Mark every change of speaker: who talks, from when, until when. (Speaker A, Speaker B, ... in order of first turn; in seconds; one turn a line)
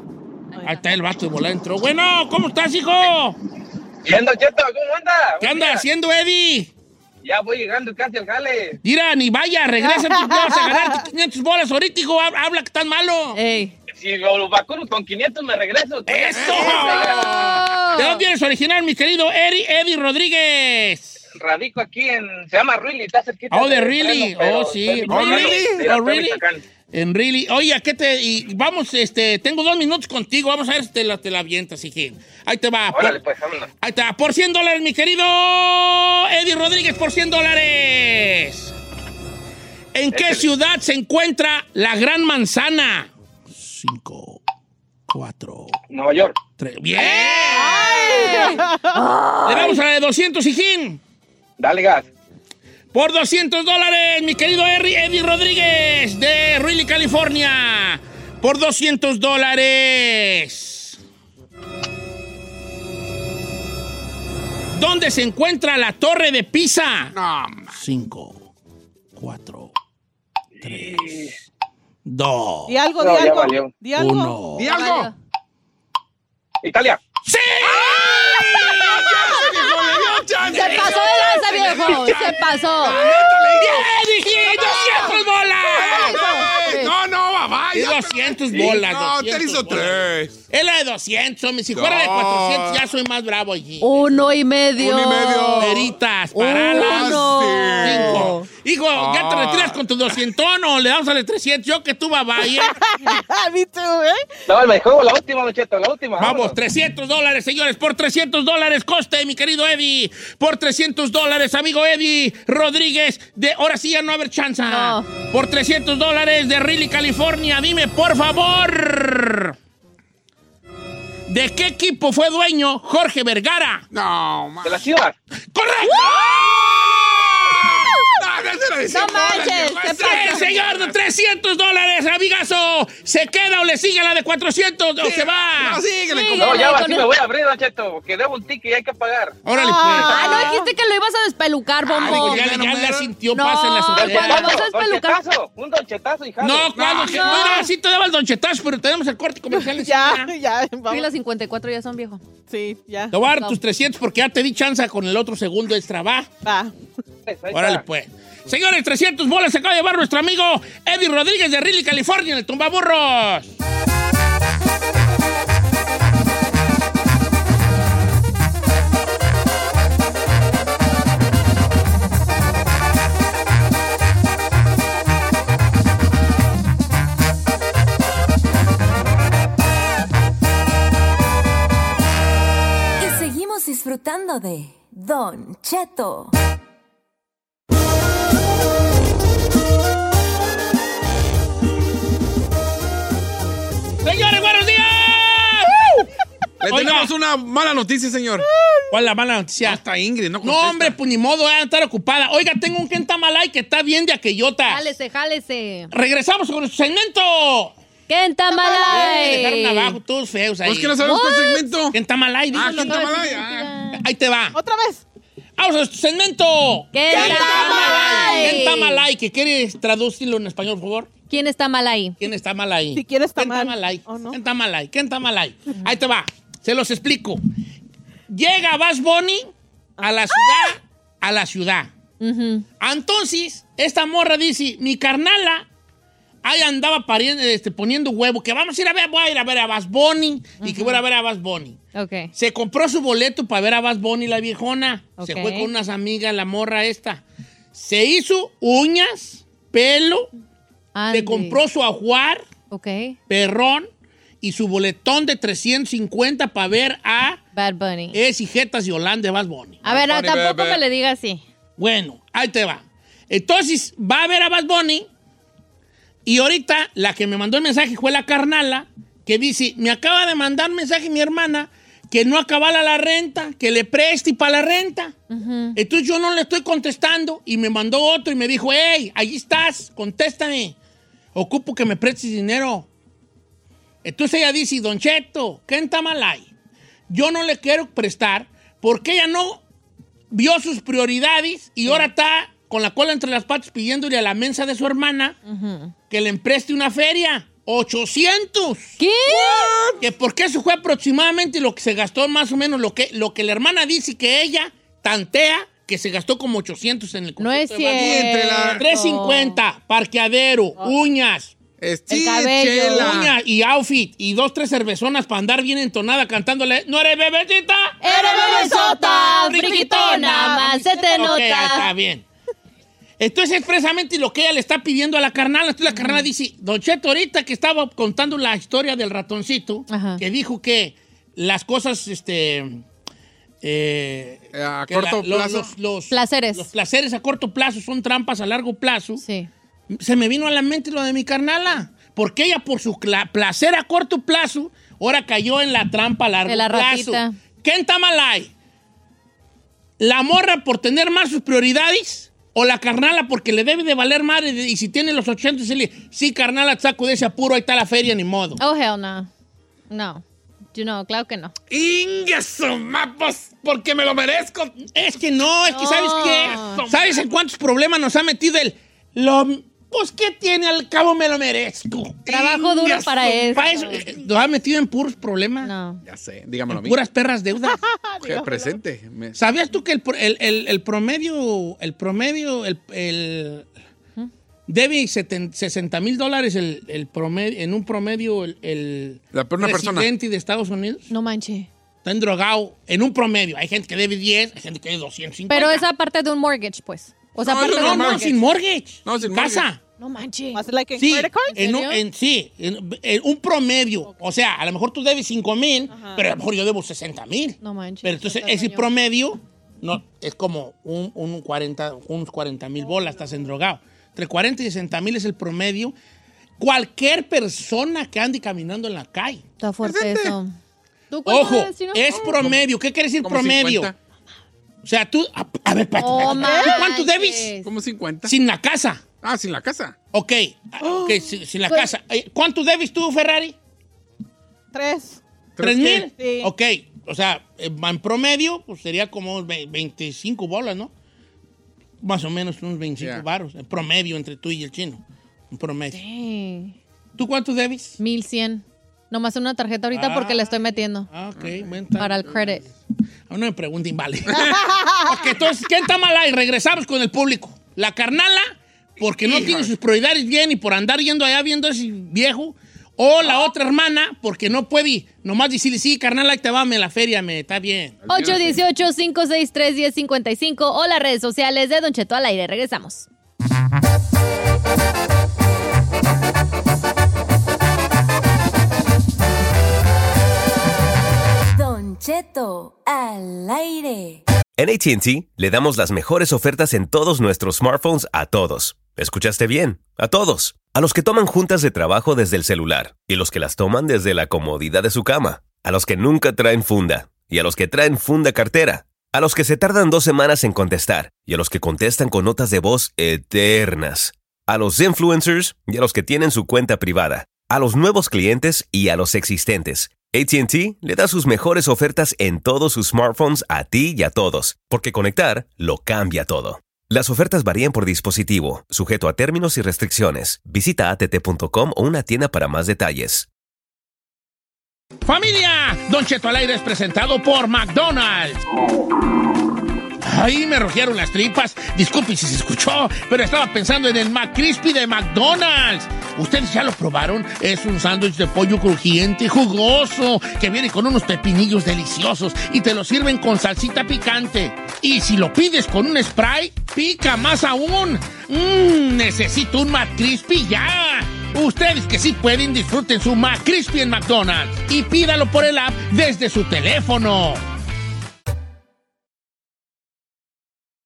Speaker A: 0.6-3.4
Speaker B: 4.0-5.8
Speaker A: 5.4-6.7
Speaker B: 7.2-8.8
Speaker A: 8.8-13.4
Speaker C: 9.8-11.0
Speaker D: 13.3-13.8
Speaker B: 13.9-17.4
Speaker A: 16.1-21.2
Speaker E: 16.3-17.6
Speaker D: 17.2-18.2
Speaker B: 21.4-26.6
Speaker A: 23.5-33.2
Speaker E: 25.0-25.9
Speaker B: 32.9-33.7
Speaker A: 33.8-38.7
Speaker A: 39.9-44.4
Speaker B: 40.1-40.4
Speaker A: 45.1-45.8
Speaker B: 45.9-46.4
Speaker A: 46.6-48.2
Speaker D: 47.0-49.8
Speaker C: 47.5-49.0
Speaker A: 49.4-51.0
Speaker B: 51.6-52.1
Speaker A: 52.9-61.0
Speaker A: 64.7-67.2
Speaker E: 67.1-67.8
Speaker A: 67.7-68.5
Speaker A: 69.2-69.7
Speaker A: 70.6-71.3
Speaker B: 70.8-71.3
Speaker A: 72.0-72.8
Speaker C: 72.7-75.0
Speaker B: 73.0-73.7
Speaker A: 74.0-74.7
Speaker E: 74.5-75.1
Speaker D: 74.7-75.1
Speaker B: 76.6-77.0
Speaker A: 77.2-79.1
Speaker E: 77.6-90.4
Speaker D: 80.4-83.0
Speaker A: 80.6-80.9
Speaker A: 82.9-86.3
Speaker D: 85.8-86.9
Speaker A: 87.7-94.0
Speaker E: 91.8-92.9
Speaker D: 93.8-95.7
Speaker E: 94.8-95.9
Speaker A: 95.6-97.3
Speaker D: 96.3-98.4
Speaker E: 96.7-98.3
Speaker A: 97.8-102.8
Speaker E: 98.9-99.8
Speaker C: 102.5-104.4
Speaker B: 104.5-106.5
Speaker A: 106.2-119.5
Speaker D: 114.7-115.1
Speaker A: 121.3-123.9
Speaker E: 123.9-124.9
Speaker B: 124.6-125.1
Speaker A: 125.5-126.4
Speaker E: 125.8-130.9
Speaker D: 125.9-126.4
Speaker D: 128.9-130.5
Speaker C: 129.0-129.9
Speaker A: 129.9-135.8
Speaker E: 135.0-136.8
Speaker D: 136.1-137.1
Speaker B: 136.4-139.4
Speaker A: 139.4-140.4
Speaker C: 139.5-140.7
Speaker D: 140.1-142.5
Speaker E: 141.9-143.1
Speaker A: 142.0-144.5
Speaker D: 143.3-145.2
Speaker B: 144.0-146.8
Speaker A: 146.4-150.3
Speaker E: 146.8-147.5
Speaker D: 147.1-147.7
Speaker C: 149.5-151.1
Speaker D: 150.9-152.2
Speaker C: 152.5-153.1
Speaker A: 153.1-156.3
Speaker C: 156.4-156.8
Speaker B: 157.3-157.8
Speaker A: 157.5-163.5
Speaker F: 183.0-186.3
Speaker A: 194.0-196.1
Speaker E: 196.6-198.5
Speaker A: 196.7-197.1
Speaker A: 198.9-199.8
Speaker E: 199.6-201.0
Speaker A: 200.4-204.9
Speaker D: 204.7-205.9
Speaker A: 205.9-207.7
Speaker D: 208.1-210.0
Speaker C: 208.6-209.4
Speaker A: 208.7-211.0
Speaker E: 210.6-212.0
Speaker D: 211.0-211.8
Speaker A: 211.9-213.0
Speaker E: 212.5-213.7
Speaker D: 212.5-214.0
Speaker A: 213.9-214.6
Speaker C: 214.5-215.0
Speaker A: 215.6-221.1
Speaker D: 216.9-219.0
Speaker C: 217.1-218.5
Speaker D: 221.3-222.2
Speaker A: 222.2-227.4
Speaker C: 222.9-224.4
Speaker A: 228.3-231.9
Speaker D: 232.2-232.7
Speaker A: 232.8-235.7
Speaker A: 236.4-241.8
Speaker D: 240.6-241.0
Speaker D: 241.9-242.3
Speaker A: 242.3-250.3
Speaker D: 245.2-245.7
Speaker D: 250.9-251.6
Speaker A: 251.1-252.4
Speaker D: 252.7-253.2
Speaker A: 253.3-253.9
Speaker A: 254.4-257.4
Speaker D: 257.5-258.2
Speaker A: 258.1-259.9
Speaker D: 259.8-261.4
Speaker E: 259.9-260.8
Speaker A: 261.8-265.1
Speaker A: 266.2-275.1
Speaker D: 275.3-275.8
Speaker A: 275.8-280.8
Speaker A: 281.4-282.9
Speaker A: 284.0-286.5
Speaker A: 287.1-289.6
Speaker A: 290.3-295.4
Speaker D: 295.5-295.9
Speaker A: 296.1-299.0
Speaker D: 299.0-299.9
Speaker E: 299.4-300.0
Speaker A: 300.0-311.5
Speaker D: 307.4-309.6
Speaker E: 307.9-308.9
Speaker E: 311.8-313.4
Speaker D: 312.1-313.2
Speaker A: 312.9-322.2
Speaker D: 318.0-321.9
Speaker C: 318.3-321.9
Speaker A: 323.2-332.8
Speaker D: 325.9-326.3
Speaker D: 329.9-330.2
Speaker A: 333.6-339.2
Speaker E: 334.5-335.7
Speaker D: 336.1-336.7
Speaker D: 339.2-339.5
Speaker A: 339.9-348.5
Speaker D: 346.5-347.4
Speaker A: 350.0-358.6
Speaker D: 358.6-359.3
Speaker D: 359.9-360.2
Speaker D: 360.7-361.5
Speaker E: 361.7-364.9
Speaker A: 364.9-372.3
Speaker D: 365.7-366.8
Speaker E: 366.4-367.2
Speaker E: 372.3-373.9
Speaker D: 372.3-374.0
Speaker A: 373.5-375.7
Speaker D: 375.6-376.0
Speaker E: 376.0-377.0
Speaker A: 376.7-377.8
Speaker C: 377.7-378.8
Speaker E: 378.2-379.4
Speaker A: 379.4-383.7
Speaker A: 384.7-391.1
Speaker E: 389.3-390.1
Speaker D: 391.1-391.7
Speaker A: 392.0-395.9
Speaker D: 395.5-398.4
Speaker E: 397.4-398.4
Speaker A: 397.4-399.8
Speaker E: 399.0-399.7
Speaker D: 400.0-400.6
Speaker C: 400.5-401.6
Speaker A: 401.0-415.9
Speaker D: 401.5-402.0
Speaker C: 405.9-406.2
Speaker D: 407.6-408.9
Speaker C: 412.9-413.2
Speaker A: 416.6-419.4
Speaker D: 419.6-420.5
Speaker E: 419.8-420.4
Speaker D: 421.1-422.4
Speaker A: 421.2-423.9
Speaker E: 423.2-423.9
Speaker A: 424.8-427.5
Speaker D: 426.0-427.7
Speaker C: 426.2-426.8
Speaker E: 427.6-428.3
Speaker A: 428.2-429.0
Speaker E: 429.2-430.0
Speaker A: 430.1-433.6
Speaker C: 430.8-431.3
Speaker C: 434.7-435.2
Speaker E: 435.6-436.1
Speaker A: 435.6-440.9
Speaker C: 436.1-436.5
Speaker A: 442.0-446.0
Speaker D: 445.9-446.8
Speaker A: 447.2-448.0
Speaker D: 448.0-451.1
Speaker A: 449.9-452.7
Speaker E: 451.4-451.7
Speaker D: 452.0-452.6
Speaker A: 453.3-468.0
Speaker E: 459.2-459.7
Speaker E: 468.0-468.6
Speaker D: 468.1-473.1
Speaker F: 481.6-484.2
Speaker G: 484.6-523.3
Speaker A: 525.0-528.4
Speaker A: 530.0-557.4